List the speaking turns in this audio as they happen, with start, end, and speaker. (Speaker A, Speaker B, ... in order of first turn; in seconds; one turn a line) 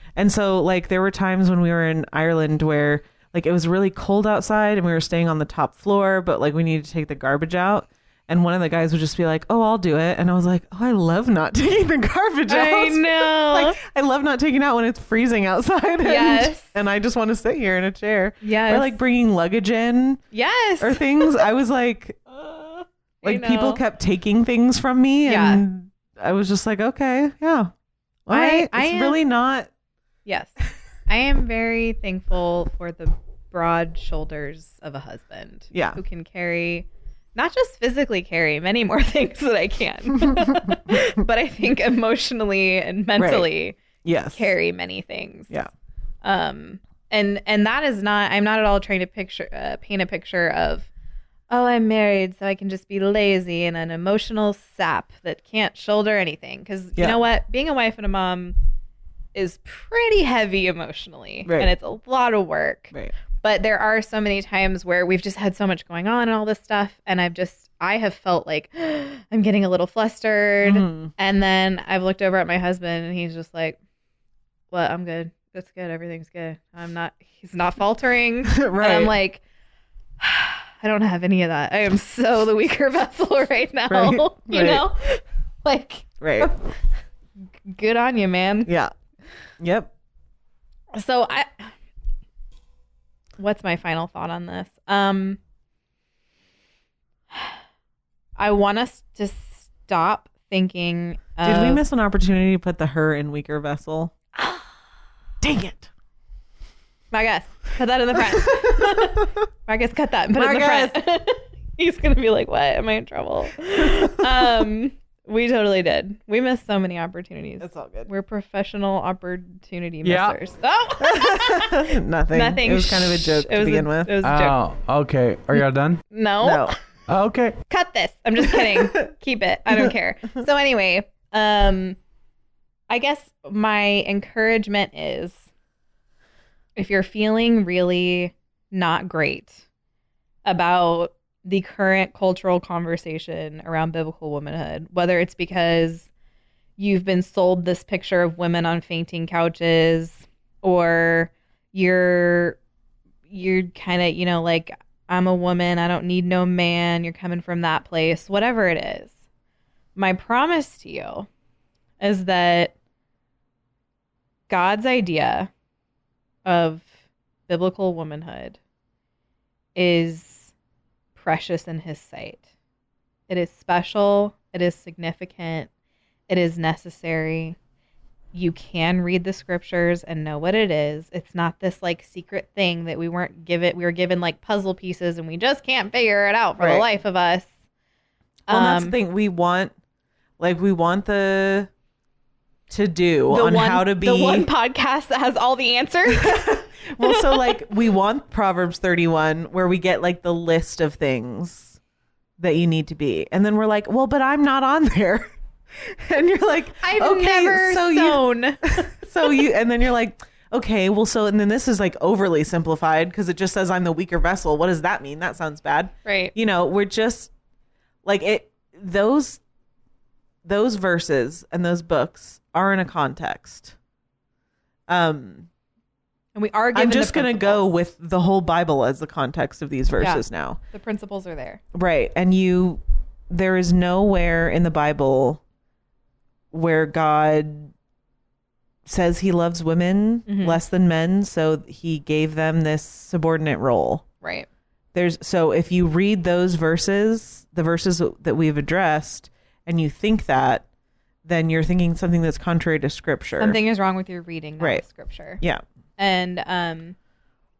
Speaker A: 0.2-20.2
Speaker B: 12.5-13.8
Speaker B: 16.0-16.7
Speaker B: 18.4-18.9
Speaker B: 20.3-21.4
Speaker A: 20.8-22.2
Speaker B: 22.4-23.8
Speaker A: 23.2-27.7
Speaker B: 25.2-25.6
Speaker A: 28.3-29.7
Speaker B: 28.3-29.2
Speaker B: 30.2-30.6
Speaker B: 31.1-43.8
Speaker A: 35.7-36.0
Speaker A: 40.3-40.7
Speaker A: 43.2-43.5
Speaker A: 44.0-44.5
Speaker B: 44.3-45.5
Speaker B: 46.2-50.9
Speaker B: 51.5-58.5
Speaker B: 59.3-73.8
Speaker A: 61.5-61.7
Speaker A: 70.6-71.1
Speaker B: 74.7-79.4
Speaker A: 78.5-79.1
Speaker B: 80.2-86.7
Speaker A: 83.9-84.8
Speaker A: 86.2-86.5
Speaker B: 87.7-88.7
Speaker A: 88.7-88.9
Speaker A: 89.6-89.9
Speaker B: 90.9-91.7
Speaker B: 93.4-95.4
Speaker B: 97.3-97.6
Speaker B: 98.4-101.8
Speaker A: 101.4-104.1
Speaker A: 105.4-105.9
Speaker B: 107.1-124.6
Speaker A: 108.4-109.0
Speaker A: 110.3-111.0
Speaker A: 114.0-114.2
Speaker A: 117.6-118.1
Speaker C: 120.0-120.3
Speaker A: 121.0-124.2
Speaker C: 124.2-126.0
Speaker B: 126.1-126.8
Speaker A: 126.4-126.7
Speaker C: 127.1-127.6
Speaker B: 127.7-132.0
Speaker A: 128.4-129.0
Speaker B: 132.9-135.4
Speaker B: 136.8-139.6
Speaker B: 140.4-146.1
Speaker B: 146.8-152.6
Speaker B: 153.3-159.2
Speaker B: 159.9-161.3
Speaker B: 162.0-162.7
Speaker B: 164.5-165.5
Speaker B: 166.4-166.9
Speaker B: 167.5-168.6
Speaker B: 169.7-170.5
Speaker B: 171.1-172.4
Speaker B: 173.3-175.7
Speaker B: 176.3-177.6
Speaker B: 178.3-187.5
Speaker A: 186.6-186.8
Speaker B: 188.5-189.0
Speaker A: 188.5-189.7
Speaker A: 190.4-191.7
Speaker A: 192.7-194.5
Speaker B: 193.3-197.5
Speaker A: 196.1-201.8
Speaker A: 202.4-217.3
Speaker B: 206.8-208.9
Speaker B: 216.0-216.3
Speaker A: 218.0-219.4
Speaker A: 220.4-223.7
Speaker A: 224.9-225.5
Speaker B: 226.3-227.7
Speaker A: 226.7-230.6
Speaker B: 230.0-231.6
Speaker A: 231.7-235.4
Speaker A: 236.5-237.7
Speaker A: 238.8-244.0
Speaker B: 240.3-240.6
Speaker B: 244.2-244.5
Speaker A: 244.9-250.6
Speaker A: 251.2-253.6
Speaker B: 253.4-255.4
Speaker A: 254.6-254.8
Speaker B: 256.0-256.9